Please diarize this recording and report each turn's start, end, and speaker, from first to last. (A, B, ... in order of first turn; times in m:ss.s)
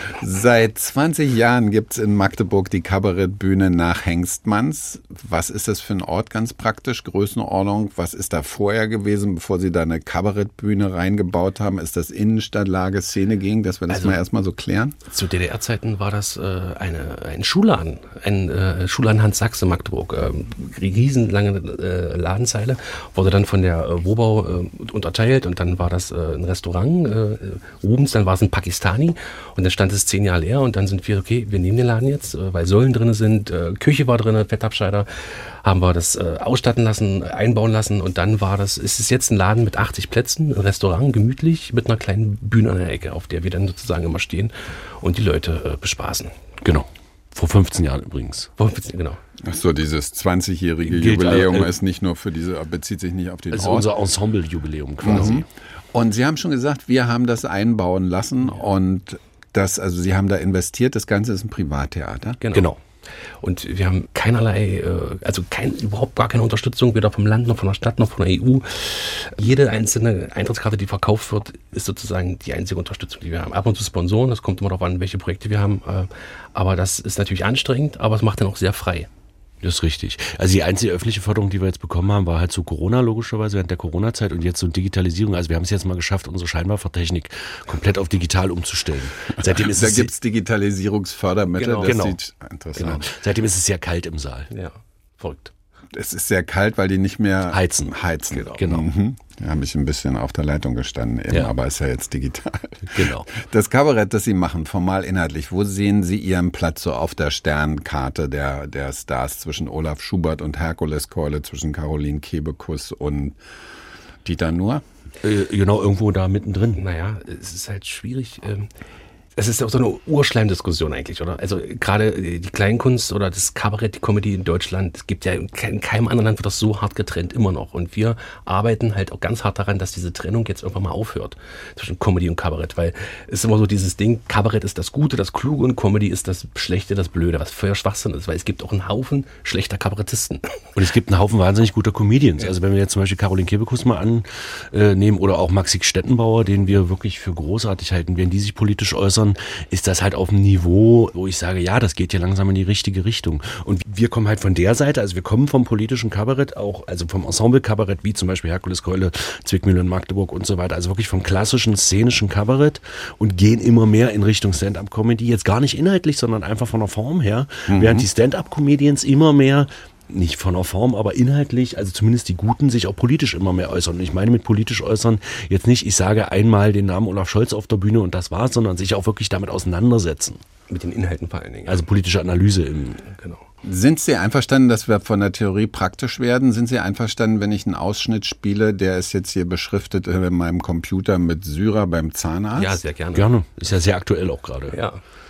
0:00.2-0:15.0 A
0:13.9-0:14.2 B
0:15.0-0:46.3 B
0:46.6-0:48.5 C
0:48.6-0:49.2 B
0:49.4-0:53.9 A
0:50.8-0:51.7 C
0:53.5-0:55.4 C
0:55.0-1:02.4 A
0:55.1-0:55.4 B
1:02.4-1:02.7 B
1:02.5-1:02.8 C
1:03.4-1:19.1 B
1:19.6-1:30.1 C
1:29.4-1:33.1 A
1:31.5-1:32.0 B
1:31.8-1:32.2 C
1:32.8-1:34.5 C
1:34.5-1:35.5 B
1:35.9-1:53.4 A
1:37.5-1:38.9 C
1:38.3-1:38.6 B
1:42.9-1:43.3 C
1:54.2-1:54.8 A
1:55.2-1:56.8 C
1:56.8-1:58.7 B
1:59.4-2:20.6 B
2:20.8-3:00.4 C
2:47.7-2:48.1 A
3:00.7-3:01.8 B
3:01.6-3:03.1 C
3:03.1-3:03.4 B
3:03.6-3:12.8 A
3:12.5-3:13.3 B
3:13.1-3:14.8 C
3:14.7-3:15.0 B